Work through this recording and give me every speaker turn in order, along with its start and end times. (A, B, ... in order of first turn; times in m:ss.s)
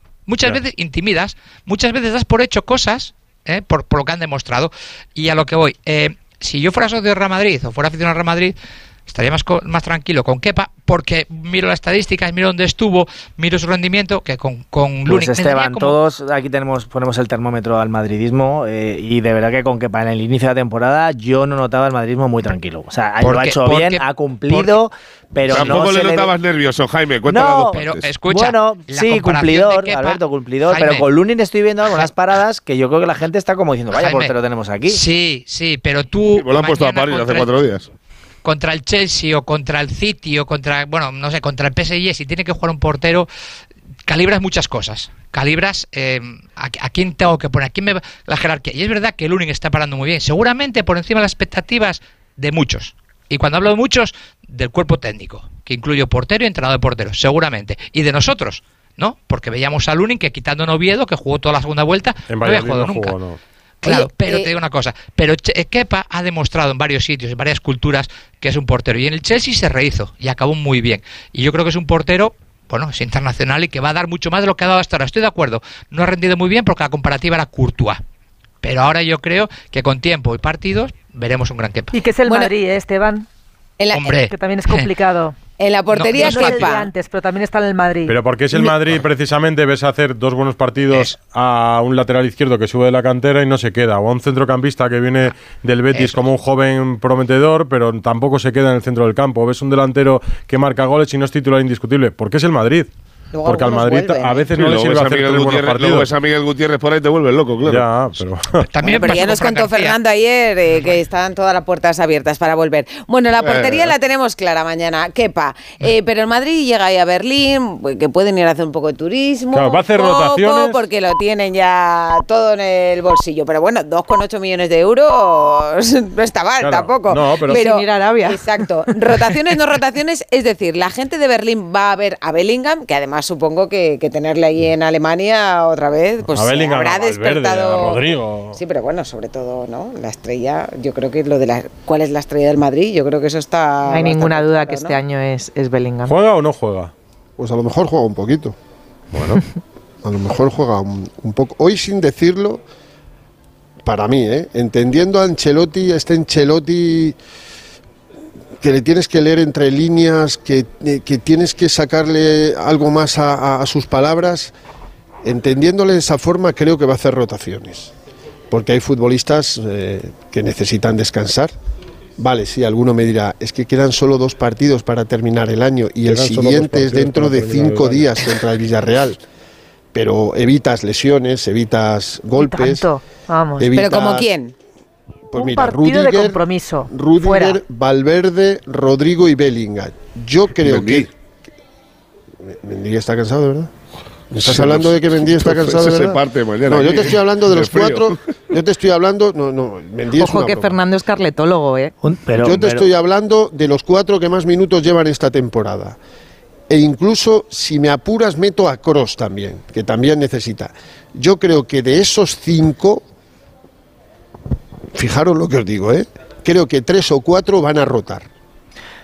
0:00.3-0:08.6 A
0:09.1-0:16.0 A
0:15.1-0:26.3 B
0:23.2-0:24.8 A
0:25.5-0:28.2 C
0:27.3-0:35.0 B
0:27.7-0:31.1 A
0:33.9-0:34.3 A
0:34.9-0:37.5 A
0:36.3-0:37.9 C
0:38.4-0:43.3 A
0:44.1-1:03.2 A
1:02.3-1:03.4 D
1:03.8-1:18.0 A
1:03.8-1:04.5 E
1:18.6-1:21.9 A
1:21.9-1:23.3 F
1:23.8-1:24.1 E
1:23.9-1:24.9 A
1:24.2-1:25.4 F
1:25.6-1:26.9 E
1:25.9-1:26.7 A
1:26.1-1:28.2 F
1:28.1-1:42.9 D
1:30.9-1:31.2 A
1:43.3-1:44.5 E
1:43.4-1:46.1 D
1:44.5-1:47.8 C
1:47.7-1:48.6 D
1:48.6-1:50.0 A
1:48.8-2:18.0 E
1:53.4-1:53.9 C
1:59.5-2:00.8 D
2:06.6-2:07.6 D
2:07.5-2:08.4 G
2:16.3-2:18.6 D
2:18.5-2:25.0 E
2:23.9-2:26.2 G
2:26.1-2:26.9 D
2:27.4-2:28.5 H
2:29.1-2:29.4 D
2:30.0-2:32.6 H
2:33.8-2:37.2 H
2:38.6-2:44.5 H
2:45.2-2:47.9 H
2:48.5-2:51.5 H
2:52.2-2:59.2 H
2:56.1-2:58.2 D
2:59.9-3:02.9 H
3:02.4-3:03.8 F
3:03.6-3:04.3 H
3:03.7-3:04.5 E
3:05.3-3:11.1 H
3:05.4-3:07.6 F
3:10.6-3:11.1 C
3:12.4-3:13.7 H
3:14.3-3:20.7 H
3:14.4-3:18.1 C
3:20.1-3:21.9 G
3:22.0-3:22.9 B
3:22.4-3:26.0 H
3:26.7-3:33.0 H
3:35.0-3:38.3 H